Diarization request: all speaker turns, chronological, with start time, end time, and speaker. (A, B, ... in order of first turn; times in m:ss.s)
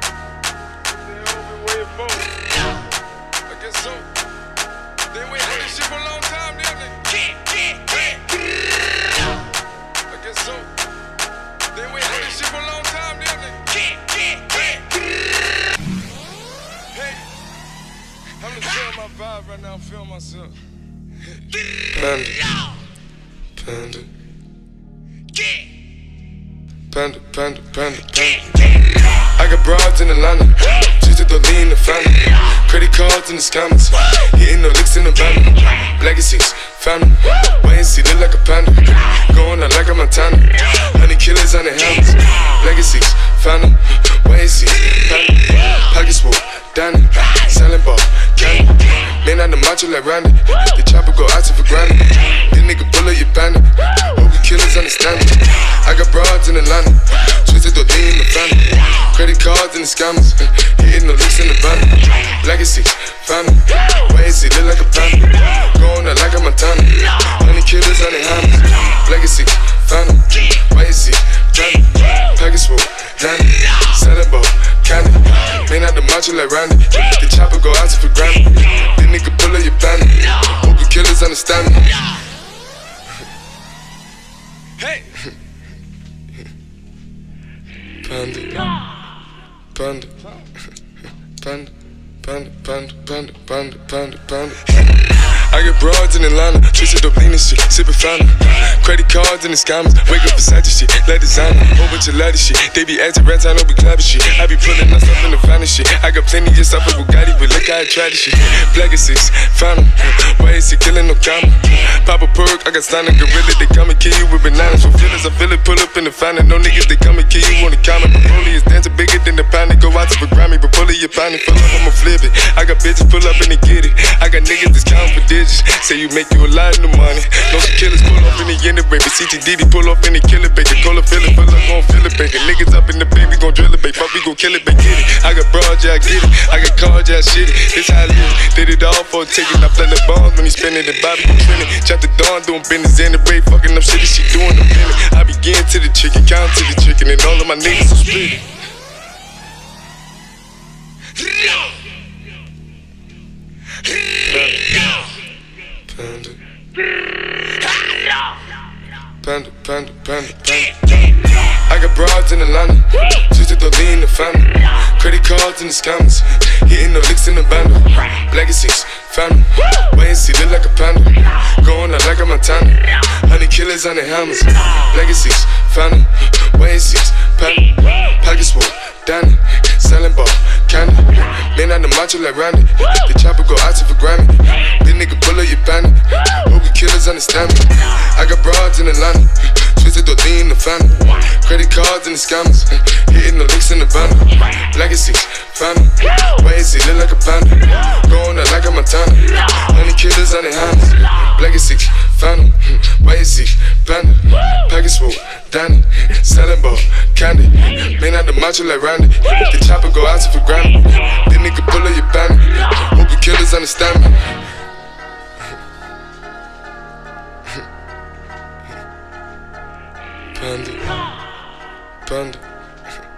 0:01.1-0:02.4 A
0:03.5-0:04.1 A
0:05.1-0:08.3 A
0:10.1-0:10.8 A
0:11.7-0:15.0 A
0:16.9-0:17.2 A
0:18.4-0:20.6 A
0:21.4-0:22.6 A
0:23.6-0:24.1 A
0:26.9-0:28.6 A
0:29.2-1:22.0 A
1:24.8-1:25.3 A
1:28.0-1:28.7 A
1:29.7-1:30.4 A
1:31.4-2:28.5 A
2:34.1-2:35.1 A
2:35.8-2:36.4 A
2:39.2-3:34.4 A
3:40.3-3:41.0 A
3:42.0-3:42.4 A